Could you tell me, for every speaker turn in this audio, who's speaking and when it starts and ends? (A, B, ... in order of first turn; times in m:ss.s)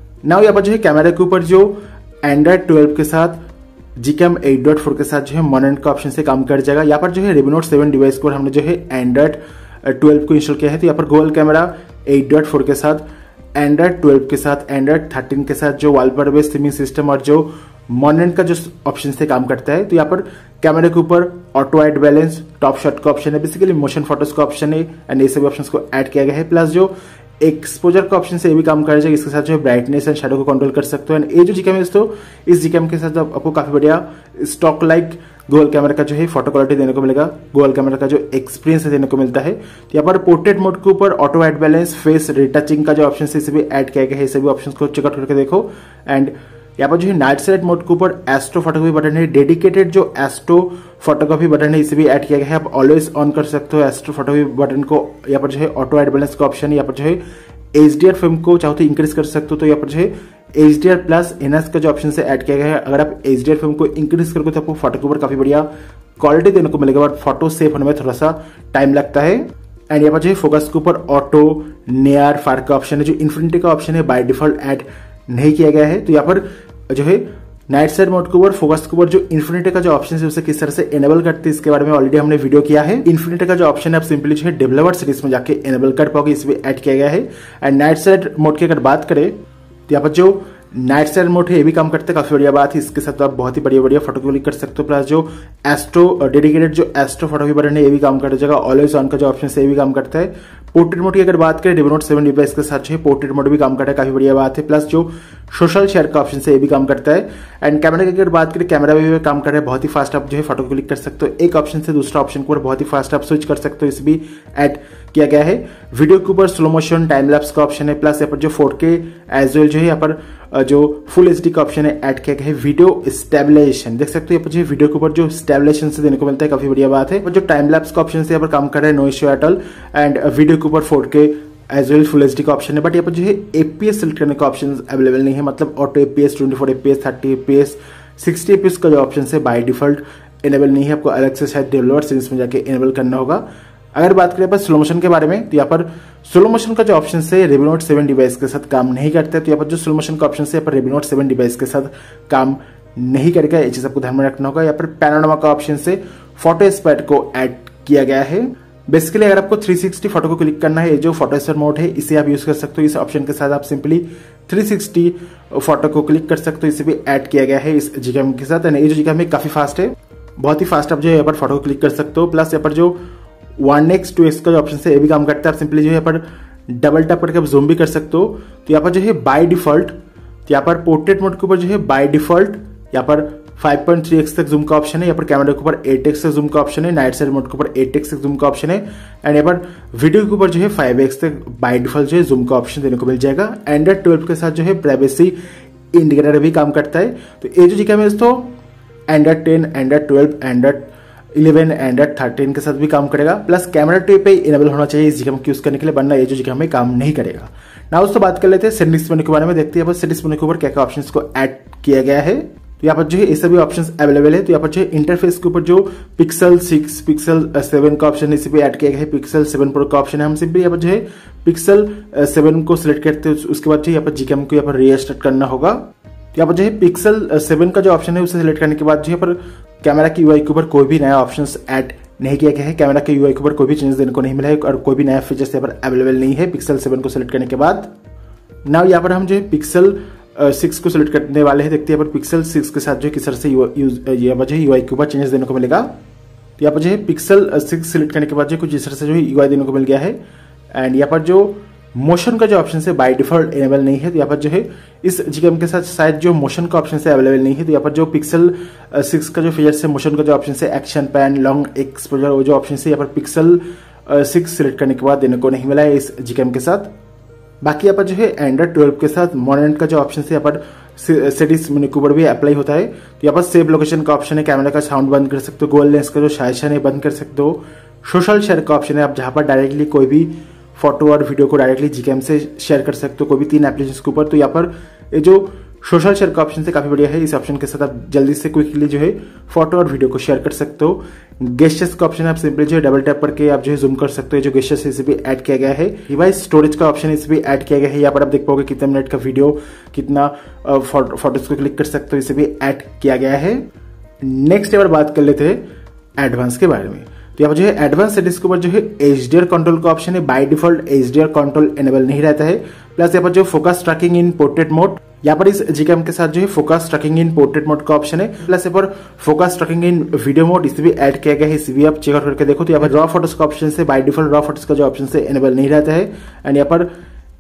0:00.2-0:03.4 A
0:04.0-0:13.0 A
0:13.5-0:26.9 A
0:27.4-0:57.2 A
0:57.7-1:05.7 A
1:06.2-1:29.4 A
1:29.9-2:53.0 A
2:53.6-3:00.0 A
3:00.5-3:15.3 A
3:15.9-3:18.5 A
3:19.1-3:57.9 A
3:58.6-4:06.0 A
4:06.6-4:10.2 A
4:10.7-4:26.9 A
4:27.6-5:03.6 A
5:04.2-5:05.6 A
5:06.2-5:26.9 A